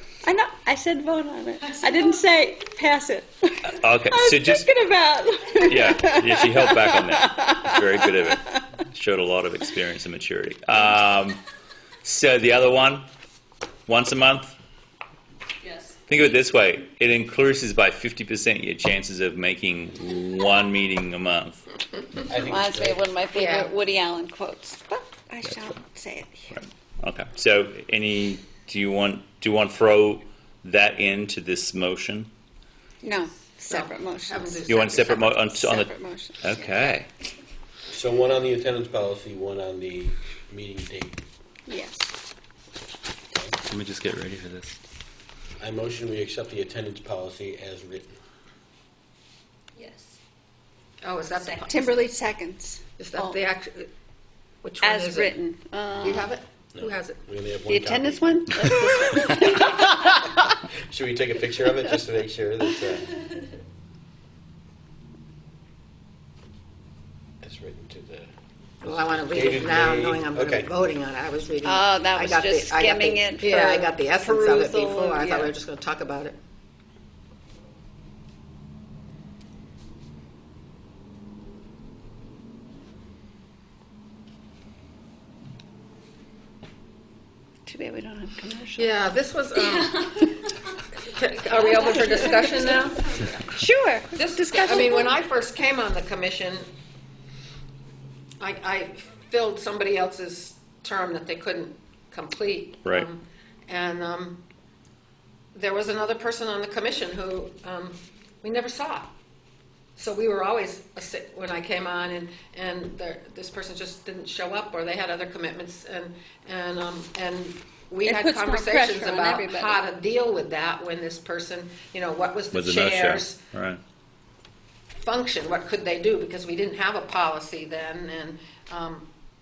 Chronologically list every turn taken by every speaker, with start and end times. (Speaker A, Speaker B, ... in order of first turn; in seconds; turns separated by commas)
Speaker A: 0.2-8.3, Speaker B: 1.6-2.3, Speaker C: 3.7-4.7, Speaker C: 5.6-11.4, Speaker C: 12.0-13.1, Speaker C: 13.9-14.5, Speaker B: 15.6-16.0, Speaker C: 16.1-21.6, Speaker D: 22.3-23.1, Speaker A: 22.4-26.5, Speaker E: 23.3-23.7, Speaker C: 26.5-32.3, Speaker A: 33.0-36.9, Speaker E: 33.7-35.2, Speaker C: 34.7-37.1, Speaker D: 37.9-41.2, Speaker A: 41.7-42.1, Speaker C: 43.7-44.8, Speaker D: 45.6-48.1, Speaker B: 49.8-50.2, Speaker E: 51.0-52.1, Speaker A: 51.6-53.4, Speaker E: 53.0-53.9, Speaker E: 54.6-55.4, Speaker A: 54.8-56.3, Speaker E: 56.0-57.2, Speaker D: 56.7-58.7, Speaker A: 57.7-60.4, Speaker D: 60.9-63.2, Speaker D: 67.4-68.3, Speaker E: 68.8-76.3, Speaker D: 68.8-70.7, Speaker A: 71.6-75.5, Speaker A: 87.7-88.9, Speaker E: 88.8-90.2, Speaker B: 89.6-90.0, Speaker E: 91.0-93.3, Speaker B: 91.5-93.2, Speaker A: 91.8-92.2, Speaker A: 93.5-95.1, Speaker E: 94.1-96.7, Speaker E: 98.4-104.4, Speaker E: 105.5-109.1, Speaker E: 110.0-123.4, Speaker A: 118.0-119.8, Speaker C: 122.5-123.8, Speaker E: 125.0-129.1